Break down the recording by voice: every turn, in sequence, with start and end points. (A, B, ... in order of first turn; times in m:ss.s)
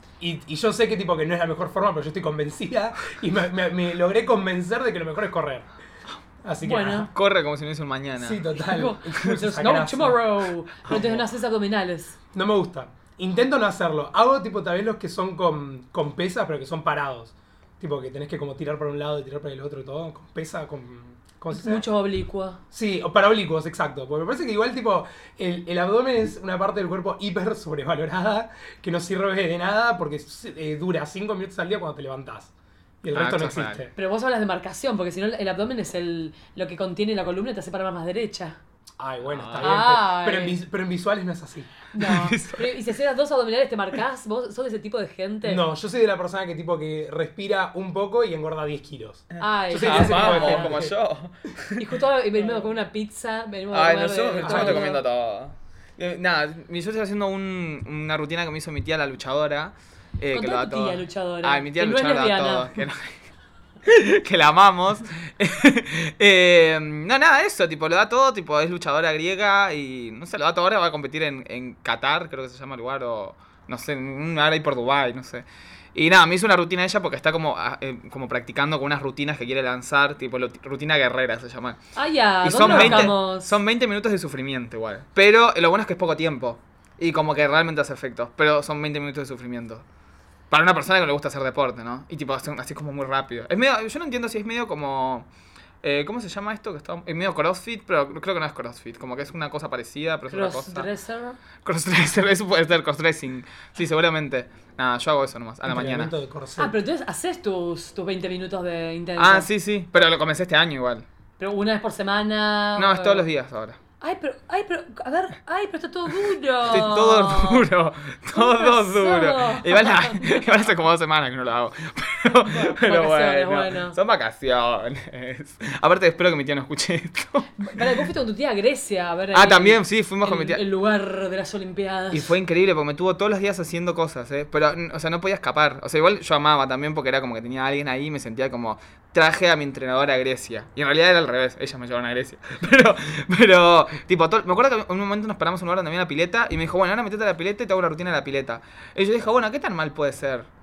0:00.2-0:05.7 A
0:06.4-0:07.1 A
0:06.6-0:07.1 B
0:07.1-0:08.4 C
0:08.2-0:10.2 A
0:08.6-0:12.2 B
0:10.9-0:11.2 A
0:12.3-0:21.8 A
0:21.5-0:22.6 B
0:22.7-0:33.9 A
0:33.1-0:33.8 C
0:34.0-0:38.6 B
0:39.0-0:41.7 A
0:39.3-0:39.8 C
0:39.6-0:40.6 B
0:41.9-0:45.6 B
0:42.0-0:42.8 C
0:45.4-0:50.9 A
0:49.3-0:51.9 C
0:49.4-0:50.8 B
0:51.8-0:55.0 B
0:53.7-1:03.2 C
0:54.4-0:54.9 A
1:00.3-1:02.8 B
1:03.8-1:21.8 C
1:22.0-1:23.6 B
1:22.4-1:29.8 C
1:22.6-1:23.1 A
1:30.5-1:35.3 C
1:35.8-1:40.9 C
1:40.3-1:41.4 B
1:41.6-1:46.1 C
1:45.6-1:46.8 A
1:46.6-1:49.5 B
1:49.2-1:51.1 C
1:51.4-1:53.2 B
1:52.8-1:53.8 C
1:54.0-1:57.6 B
1:56.7-2:07.9 C
1:58.3-2:00.4 B
2:02.4-2:04.0 B
2:07.6-2:12.3 B
2:09.3-2:10.6 C
2:12.1-2:30.5 C